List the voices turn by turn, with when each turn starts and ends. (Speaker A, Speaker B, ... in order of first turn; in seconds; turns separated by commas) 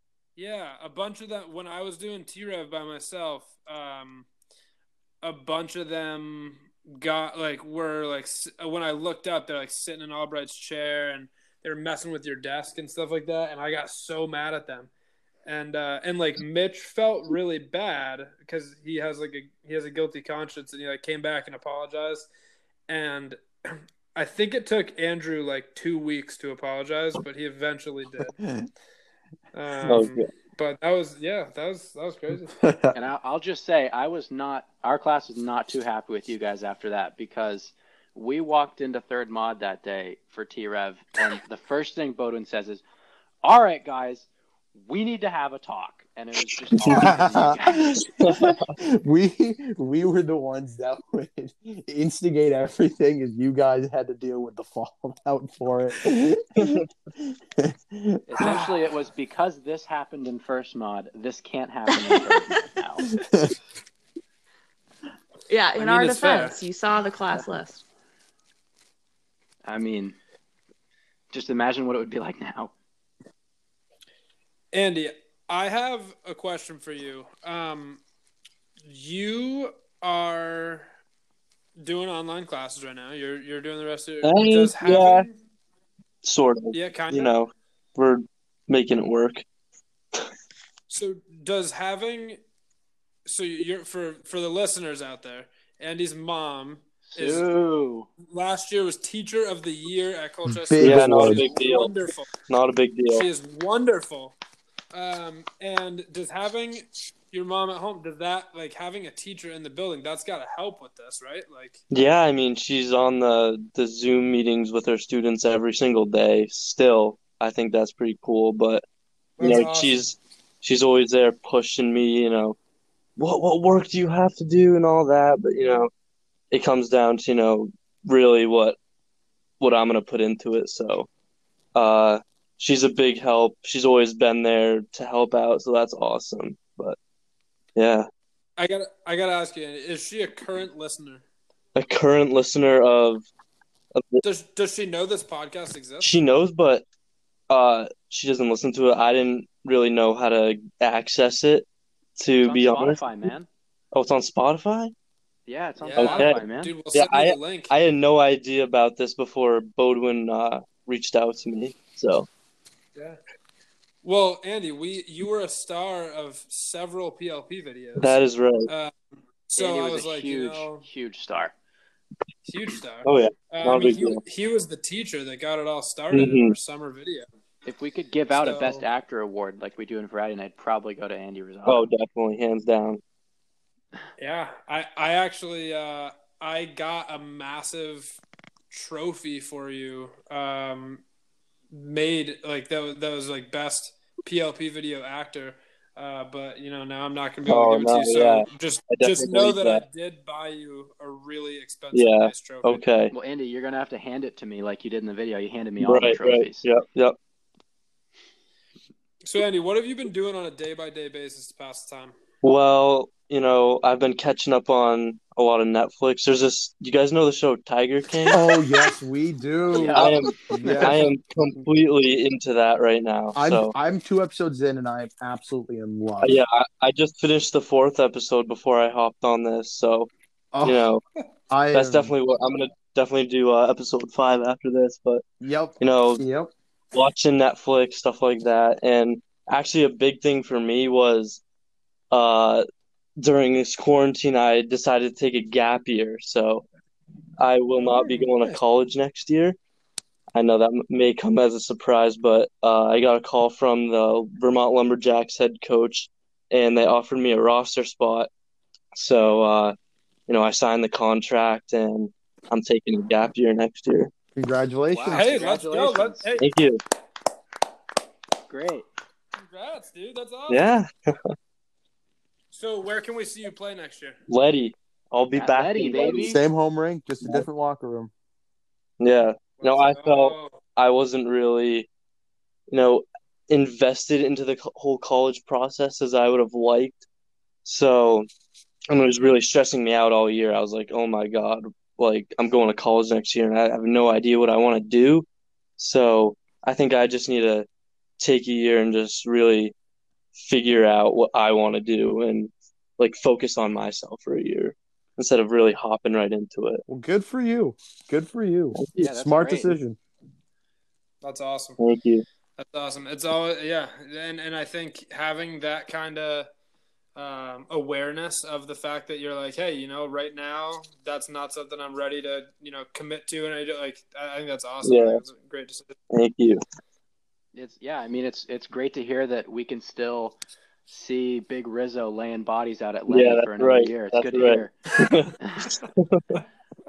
Speaker A: 0.4-4.3, Speaker A: 5.2-14.9, Speaker A: 15.5-22.3, Speaker A: 22.9-28.4, Speaker B: 28.4-28.7, Speaker A: 29.5-32.6, Speaker C: 29.9-30.3, Speaker B: 32.6-33.0, Speaker D: 32.9-42.8, Speaker D: 43.4-48.0, Speaker C: 46.8-47.1, Speaker B: 46.9-58.6, Speaker C: 48.0-48.6, Speaker C: 56.6-56.8, Speaker D: 58.3-63.1, Speaker E: 61.9-62.6, Speaker B: 63.2-63.5, Speaker E: 65.5-67.8, Speaker A: 65.8-66.6, Speaker D: 69.7-70.2, Speaker D: 71.3-72.7, Speaker A: 74.7-78.0, Speaker A: 78.8-80.9, Speaker A: 81.8-85.4, Speaker C: 84.2-85.3, Speaker C: 86.2-89.4, Speaker A: 86.7-87.3, Speaker A: 90.9-92.4, Speaker A: 93.3-97.5, Speaker D: 97.0-98.1, Speaker A: 98.2-102.3, Speaker B: 100.5-101.5, Speaker C: 100.8-101.9, Speaker C: 102.5-103.3, Speaker A: 103.1-104.4, Speaker A: 104.9-111.8, Speaker C: 111.9-118.8, Speaker A: 119.4-120.1, Speaker C: 119.4-122.6, Speaker C: 123.2-125.9, Speaker C: 126.5-128.8, Speaker C: 129.6-131.1, Speaker C: 131.8-137.0, Speaker C: 137.8-138.1, Speaker A: 138.6-141.2, Speaker C: 141.8-143.3, Speaker C: 143.9-144.2, Speaker A: 144.2-146.1, Speaker C: 146.0-146.8, Speaker C: 147.5-151.7, Speaker C: 152.2-153.0, Speaker D: 152.4-153.5, Speaker C: 153.9-154.9, Speaker D: 155.5-156.7, Speaker A: 155.8-157.7, Speaker C: 156.0-156.4, Speaker C: 156.9-162.3, Speaker A: 164.0-168.9, Speaker C: 168.0-168.7, Speaker A: 169.5-170.9, Speaker D: 169.6-171.5, Speaker A: 172.5-177.3, Speaker C: 173.1-174.2, Speaker C: 176.1-176.6, Speaker D: 177.7-181.9, Speaker A: 178.3-178.8, Speaker C: 181.7-183.0, Speaker A: 184.2-188.2, Speaker A: 188.7-191.0, Speaker A: 191.7-202.8, Speaker C: 197.5-199.8, Speaker C: 201.9-203.1, Speaker D: 203.1-206.7, Speaker C: 205.8-207.2, Speaker A: 209.2-212.2, Speaker C: 212.4-218.4, Speaker B: 218.3-221.0, Speaker D: 219.7-220.9, Speaker C: 219.9-223.7, Speaker B: 223.3-226.4, Speaker C: 226.2-230.1, Speaker B: 230.5-230.8, Speaker C: 230.6-231.0, Speaker B: 231.5-232.1, Speaker C: 231.7-235.2, Speaker B: 235.4-236.5, Speaker C: 235.8-236.2, Speaker C: 236.9-241.4, Speaker C: 242.1-242.6, Speaker C: 243.2-246.7, Speaker C: 247.4-249.6, Speaker A: 247.9-248.3, Speaker C: 250.3-258.3, Speaker C: 258.9-259.8, Speaker C: 260.3-264.1, Speaker B: 264.4-265.3, Speaker D: 264.9-266.3, Speaker A: 265.1-266.5, Speaker C: 266.4-266.8, Speaker D: 268.5-268.9, Speaker A: 269.4-270.8, Speaker C: 270.5-271.2, Speaker A: 272.5-274.2, Speaker C: 274.3-276.4, Speaker D: 275.4-276.4, Speaker B: 276.3-278.1, Speaker C: 279.0-281.9, Speaker A: 279.6-280.6, Speaker C: 282.7-287.0, Speaker C: 287.6-288.3, Speaker C: 288.9-295.3, Speaker C: 295.8-297.7, Speaker C: 298.2-299.7, Speaker C: 300.4-306.8, Speaker B: 306.9-310.0, Speaker D: 309.0-309.8, Speaker A: 311.2-311.8, Speaker C: 311.8-312.2, Speaker A: 312.6-316.5, Speaker A: 317.2-325.9, Speaker C: 324.8-325.2, Speaker C: 326.1-326.6, Speaker D: 327.6-334.7, Speaker C: 333.1-336.4, Speaker D: 335.4-335.7